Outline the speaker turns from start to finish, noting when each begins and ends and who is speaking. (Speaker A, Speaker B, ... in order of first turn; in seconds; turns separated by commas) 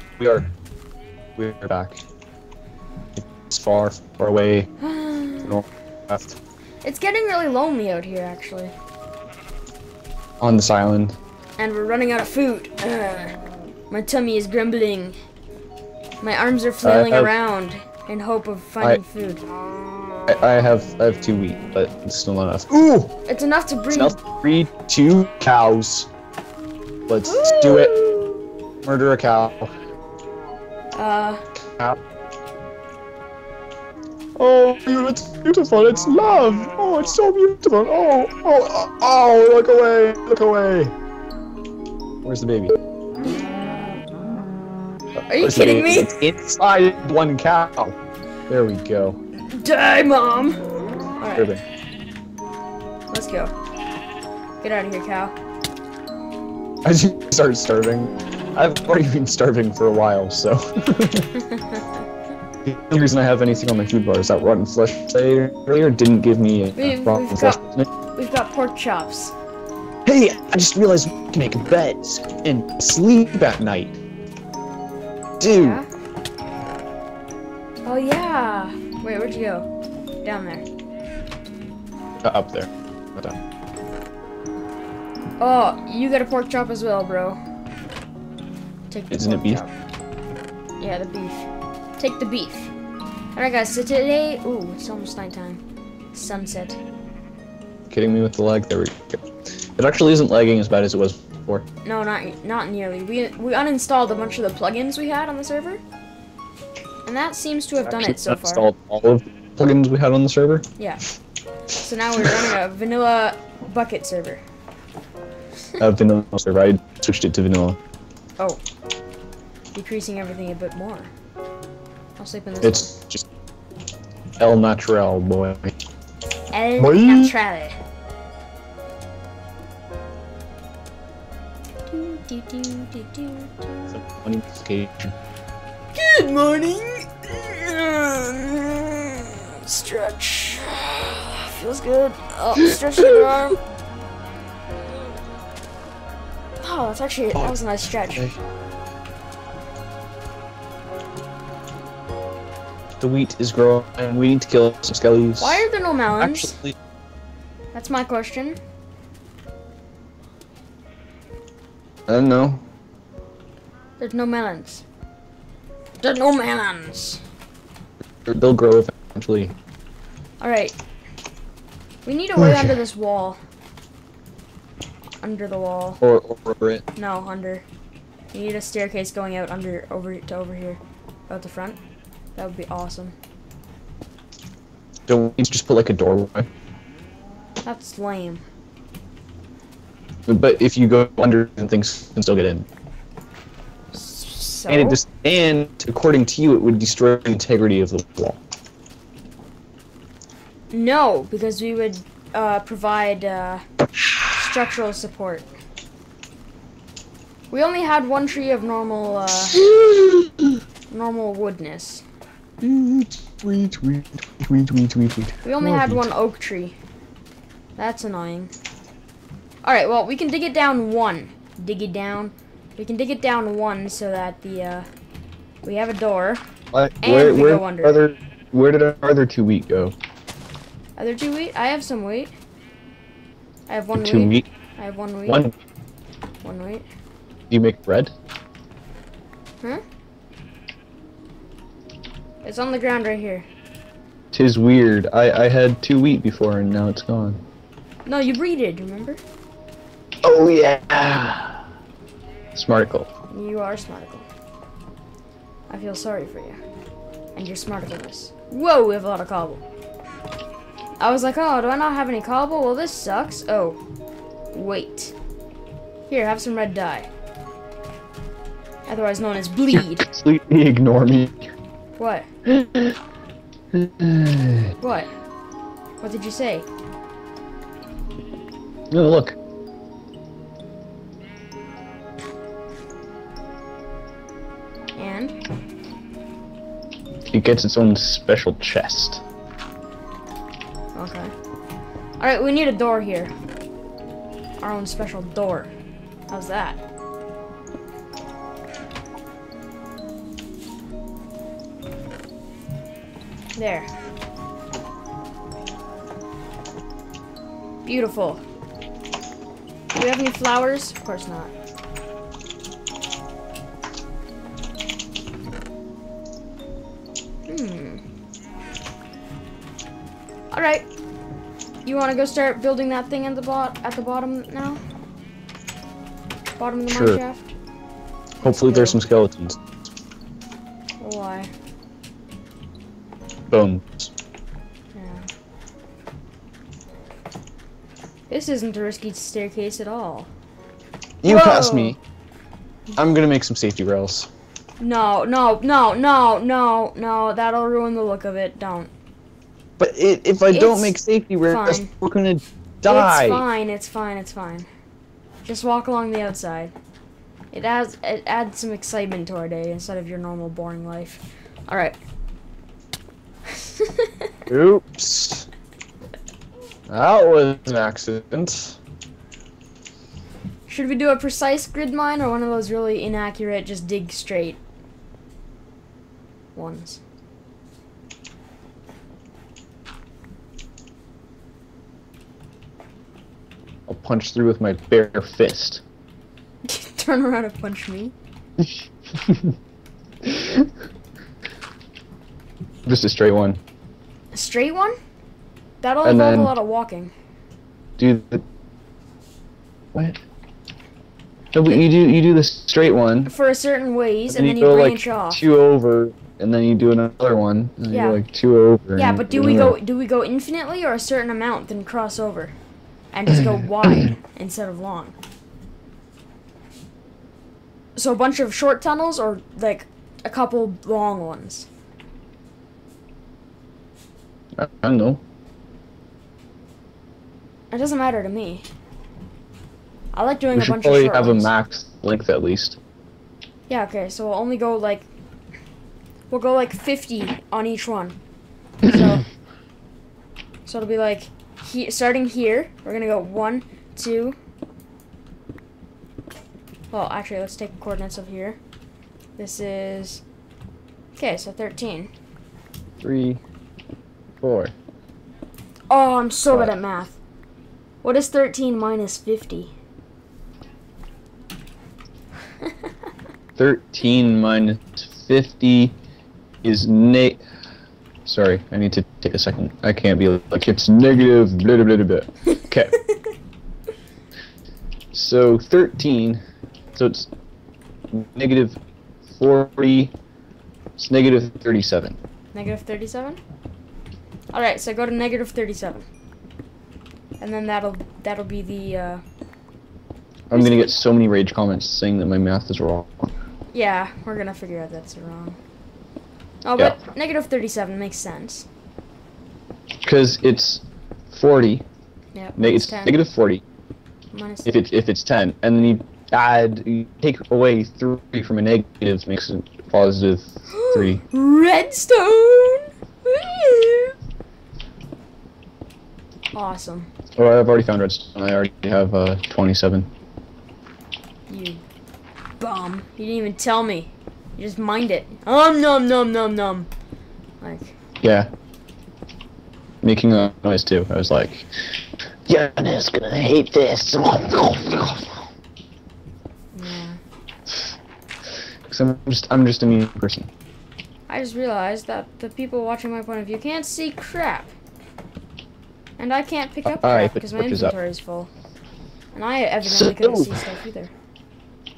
Speaker A: 0.2-0.5, Speaker A: 1.4-2.0, Speaker A: 3.5-4.7, Speaker B: 4.8-5.6, Speaker A: 5.4-6.3, Speaker B: 6.8-8.7, Speaker A: 10.4-11.2, Speaker B: 11.6-13.4, Speaker B: 13.9-15.1, Speaker B: 16.2-19.4, Speaker A: 16.8-17.3, Speaker A: 20.3-23.1, Speaker B: 23.3-24.2, Speaker A: 23.9-26.1, Speaker A: 27.1-27.9, Speaker B: 27.2-28.4, Speaker A: 28.8-29.7, Speaker B: 30.9-31.4, Speaker A: 34.4-40.9, Speaker A: 42.2-42.7, Speaker A: 45.2-48.0, Speaker B: 45.3-46.2, Speaker A: 48.5-49.2, Speaker B: 49.4-50.6, Speaker B: 51.2-51.5, Speaker A: 51.3-51.6, Speaker B: 53.1-53.5, Speaker B: 54.6-55.3, Speaker A: 56.8-61.3, Speaker B: 61.4-61.8, Speaker A: 62.6-67.9, Speaker B: 66.8-67.6, Speaker B: 68.2-69.3, Speaker A: 70.0-74.0, Speaker A: 75.4-75.8, Speaker B: 75.5-75.8, Speaker B: 77.8-79.7, Speaker B: 80.2-80.6, Speaker A: 82.2-83.4, Speaker B: 85.4-87.4, Speaker B: 88.9-89.7, Speaker A: 89.1-89.6, Speaker B: 90.8-92.7, Speaker B: 93.3-95.6, Speaker B: 96.1-96.8, Speaker A: 97.9-99.2, Speaker A: 99.8-101.7, Speaker B: 101.8-105.8, Speaker B: 107.0-108.7, Speaker A: 107.8-110.7, Speaker B: 110.8-111.0, Speaker B: 111.7-114.4, Speaker A: 112.2-112.5, Speaker A: 115.8-117.8, Speaker B: 119.7-121.1, Speaker B: 122.2-122.9, Speaker A: 122.6-123.2, Speaker A: 124.4-125.7, Speaker B: 126.5-127.8, Speaker A: 126.8-127.3, Speaker B: 131.9-133.9, Speaker A: 133.9-135.1, Speaker B: 135.9-143.6, Speaker A: 142.6-143.2, Speaker B: 146.6-148.3, Speaker A: 153.0-155.6, Speaker B: 155.4-156.5, Speaker A: 156.2-156.8, Speaker B: 157.7-158.6, Speaker A: 162.1-162.6, Speaker B: 164.0-164.8, Speaker B: 166.0-167.2, Speaker A: 168.2-169.5, Speaker B: 170.4-170.8, Speaker B: 172.0-173.4, Speaker A: 172.4-172.8, Speaker B: 175.2-176.0, Speaker A: 176.0-176.8, Speaker B: 176.9-177.6, Speaker B: 178.3-181.8, Speaker B: 182.3-183.1, Speaker A: 185.1-186.5, Speaker B: 187.6-188.4, Speaker A: 190.3-192.7, Speaker B: 193.9-195.0, Speaker A: 194.7-198.4, Speaker B: 200.7-203.6, Speaker B: 204.3-205.5, Speaker B: 207.5-209.6, Speaker A: 209.5-210.5, Speaker B: 210.9-212.0, Speaker A: 212.6-216.1, Speaker B: 215.4-216.8, Speaker B: 217.8-218.5, Speaker B: 219.6-224.9, Speaker B: 225.6-226.4, Speaker A: 226.7-229.9, Speaker B: 227.0-228.0, Speaker B: 231.0-232.3, Speaker B: 233.7-235.4, Speaker A: 233.9-234.4, Speaker A: 235.3-235.5, Speaker B: 236.4-236.8, Speaker A: 237.5-238.1, Speaker B: 242.4-243.4, Speaker A: 244.3-247.4, Speaker B: 248.1-249.2, Speaker A: 250.2-251.7, Speaker A: 252.5-253.1, Speaker B: 253.3-254.2, Speaker B: 255.7-256.6, Speaker B: 257.3-259.6, Speaker B: 261.0-263.8, Speaker B: 264.5-265.1, Speaker B: 266.1-267.1, Speaker B: 268.9-270.1, Speaker A: 269.7-271.5, Speaker B: 272.0-272.3, Speaker A: 272.4-273.0, Speaker A: 273.7-274.7, Speaker B: 274.8-275.1, Speaker B: 276.0-276.7, Speaker A: 278.9-279.4, Speaker B: 284.9-285.3, Speaker A: 287.3-289.2, Speaker B: 290.9-291.3, Speaker B: 292.2-293.3, Speaker B: 294.6-295.7, Speaker B: 296.3-296.8, Speaker B: 303.6-303.9, Speaker B: 307.8-308.4, Speaker B: 309.9-311.5, Speaker B: 317.5-318.0, Speaker B: 320.5-320.9, Speaker B: 321.8-324.8, Speaker B: 326.6-327.5, Speaker A: 326.9-327.2, Speaker A: 328.4-329.6, Speaker B: 328.4-329.0, Speaker B: 331.0-331.5, Speaker A: 333.5-334.1, Speaker B: 334.9-335.3, Speaker B: 338.3-340.3, Speaker A: 341.2-342.0, Speaker B: 341.2-341.9, Speaker A: 342.9-344.3, Speaker B: 344.8-348.9, Speaker A: 349.8-353.4, Speaker B: 350.5-351.9, Speaker B: 352.8-354.7, Speaker B: 355.5-356.7, Speaker B: 357.5-362.0, Speaker B: 363.5-364.3, Speaker A: 364.5-365.5, Speaker A: 366.9-368.8, Speaker B: 370.7-374.6, Speaker B: 376.5-377.0, Speaker A: 383.9-385.8, Speaker B: 386.6-388.1, Speaker A: 389.2-389.5, Speaker A: 390.2-390.7, Speaker A: 392.9-393.6, Speaker B: 394.3-394.9, Speaker B: 395.8-397.1, Speaker A: 396.0-396.5, Speaker A: 398.0-398.4, Speaker A: 399.9-400.2, Speaker A: 401.5-403.3, Speaker B: 403.2-405.4, Speaker A: 404.3-409.8, Speaker B: 407.9-408.2, Speaker B: 408.9-412.6, Speaker B: 413.1-415.1, Speaker B: 417.9-421.7, Speaker A: 424.6-425.2, Speaker B: 427.7-428.6, Speaker B: 430.1-431.5, Speaker A: 430.5-432.8, Speaker B: 433.7-435.1, Speaker B: 436.3-438.2, Speaker B: 438.8-439.2, Speaker B: 440.6-444.4, Speaker B: 446.9-448.6, Speaker B: 449.4-450.2, Speaker B: 451.2-452.1, Speaker A: 453.0-453.4, Speaker A: 454.4-454.7, Speaker B: 455.9-457.2, Speaker A: 456.5-456.7, Speaker B: 458.0-459.7, Speaker A: 463.6-465.9, Speaker A: 466.6-467.4, Speaker A: 468.2-473.0, Speaker A: 475.1-476.4, Speaker A: 476.9-477.3, Speaker A: 478.1-478.8, Speaker A: 479.3-480.1, Speaker A: 481.0-482.2, Speaker B: 482.5-483.4, Speaker B: 484.5-486.1, Speaker B: 487.4-489.2, Speaker A: 490.5-493.3, Speaker B: 490.5-491.0, Speaker B: 493.7-495.6, Speaker B: 496.6-498.7, Speaker A: 500.0-501.8, Speaker B: 502.3-503.2, Speaker A: 502.6-503.6, Speaker B: 504.3-504.7, Speaker A: 504.6-511.2, Speaker B: 510.7-514.1, Speaker B: 516.5-517.1, Speaker A: 517.4-520.1, Speaker B: 521.5-521.8, Speaker B: 522.6-526.9, Speaker B: 527.6-527.9, Speaker A: 528.2-528.5, Speaker A: 530.0-531.7, Speaker A: 532.5-535.5, Speaker B: 536.7-537.2, Speaker A: 538.9-540.5, Speaker B: 541.3-544.7, Speaker B: 546.2-548.5, Speaker A: 546.8-547.9, Speaker B: 549.3-551.1, Speaker A: 549.8-550.6